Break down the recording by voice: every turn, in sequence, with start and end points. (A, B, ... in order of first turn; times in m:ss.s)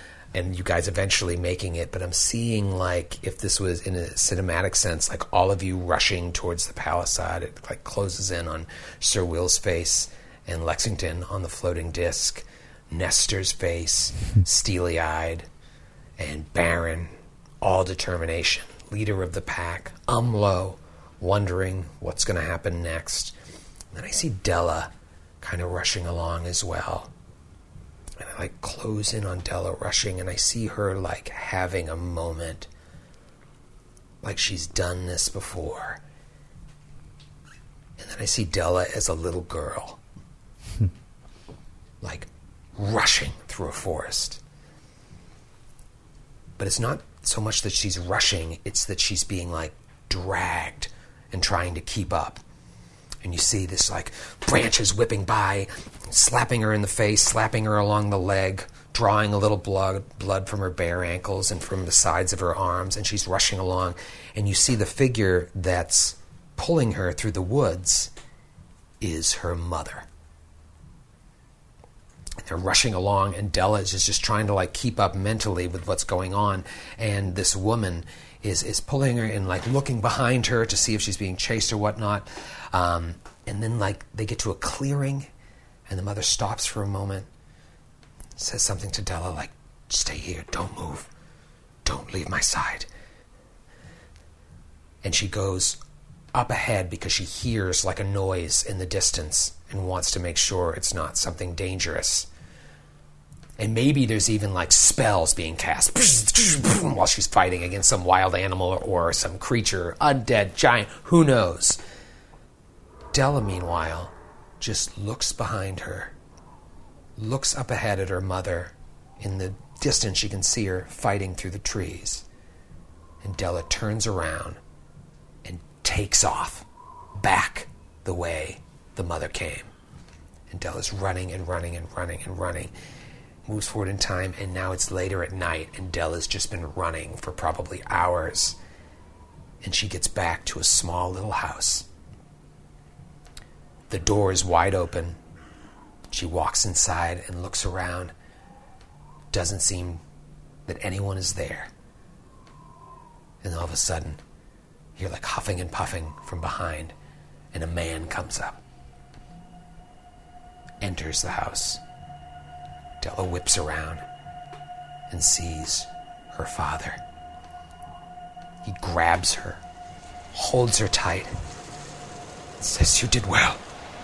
0:00.3-0:15.4 A
0:16.2-0:17.1 A
0:17.6-0:23.3 A
0:23.9-0:24.9 A
0:25.4-0:27.1 A
0:28.2-0:32.7 A
0:34.2-0:36.0 A
0:38.0-0:40.0 A
0:42.0-0:44.4 A
0:46.6-0:52.4 A
0:53.2-1:08.1 A
1:09.0-1:10.0 A
1:12.4-1:25.3 A
1:25.9-1:27.3 A
1:28.4-1:31.1 A
1:31.8-1:32.9 A
1:35.0-1:35.8 A
1:36.3-1:42.3 A
1:43.6-1:51.8 A
1:53.1-1:56.1 A
1:57.2-2:02.2 A
2:03.2-2:04.6 A
2:05.4-2:06.6 A
2:07.2-2:09.7 A
2:10.5-2:12.7 A
2:13.4-2:18.6 A
2:19.6-2:21.8 A
2:23.9-2:25.2 A
2:26.1-2:28.1 A
2:29.3-2:30.0 A
2:30.7-2:31.7 A
2:33.4-2:34.2 A
2:35.0-2:36.9 A
2:37.5-2:38.6 A
2:40.8-2:41.8 A
2:43.0-2:44.0 A
2:45.1-2:47.0 A
2:48.6-2:49.6 A
2:50.3-2:51.3 A
2:52.6-2:53.6 A